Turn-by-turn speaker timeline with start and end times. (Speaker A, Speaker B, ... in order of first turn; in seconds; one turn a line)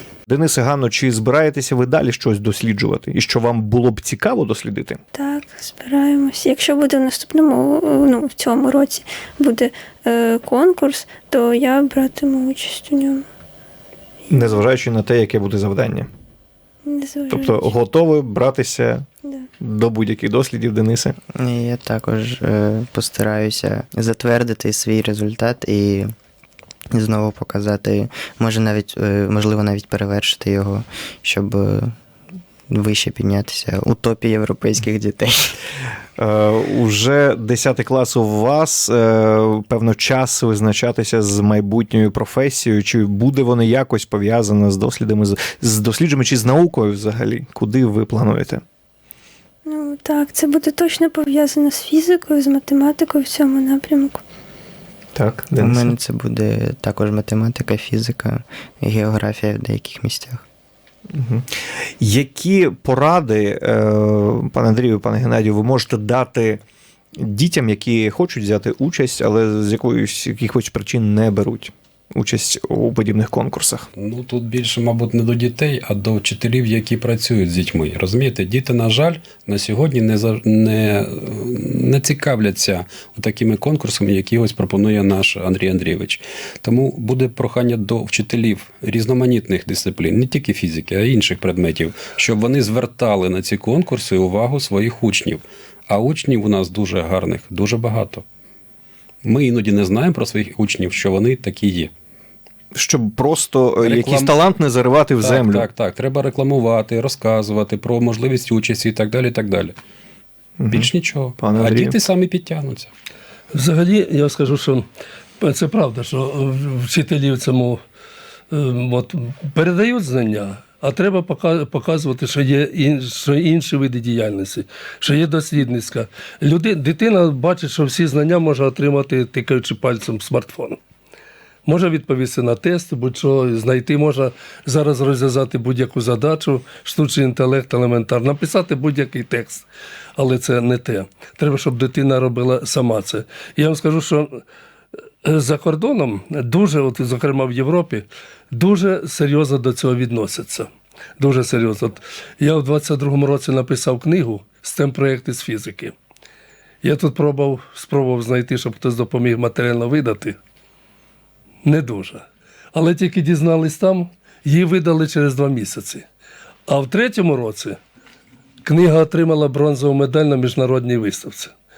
Speaker A: 0.3-5.0
Speaker B: 5.1-13.2
Speaker A: 14.3-16.1
Speaker B: 16.9-17.7
Speaker A: 17.3-19.1
Speaker A: 19.6-21.2
Speaker C: 21.3-26.1
Speaker C: 26.9-31.9
Speaker C: 32.7-35.6
Speaker A: 36.2-48.6
Speaker B: 49.6-54.2
Speaker A: 55.1-55.9
Speaker C: 55.6-60.5
Speaker A: 61.1-61.5
Speaker A: 62.0-66.6
Speaker A: 67.2-73.9
Speaker D: 74.0-98.2
Speaker D: 99.2-101.9
Speaker A: 102.8-105.7
Speaker D: 103.8-104.3
Speaker D: 105.2-109.8
Speaker A: 110.6-110.9
Speaker D: 110.7-112.9
Speaker A: 111.4-111.9
Speaker E: 113.5-114.8
Speaker E: 115.4-117.8
Speaker E: 118.5-130.8
Speaker E: 131.7-139.7
Speaker E: 140.2-144.4
Speaker E: 145.2-155.9
Speaker E: 156.8-160.4
Speaker E: 161.6-166.1
Speaker E: 166.7-167.8
Speaker E: 168.7-171.5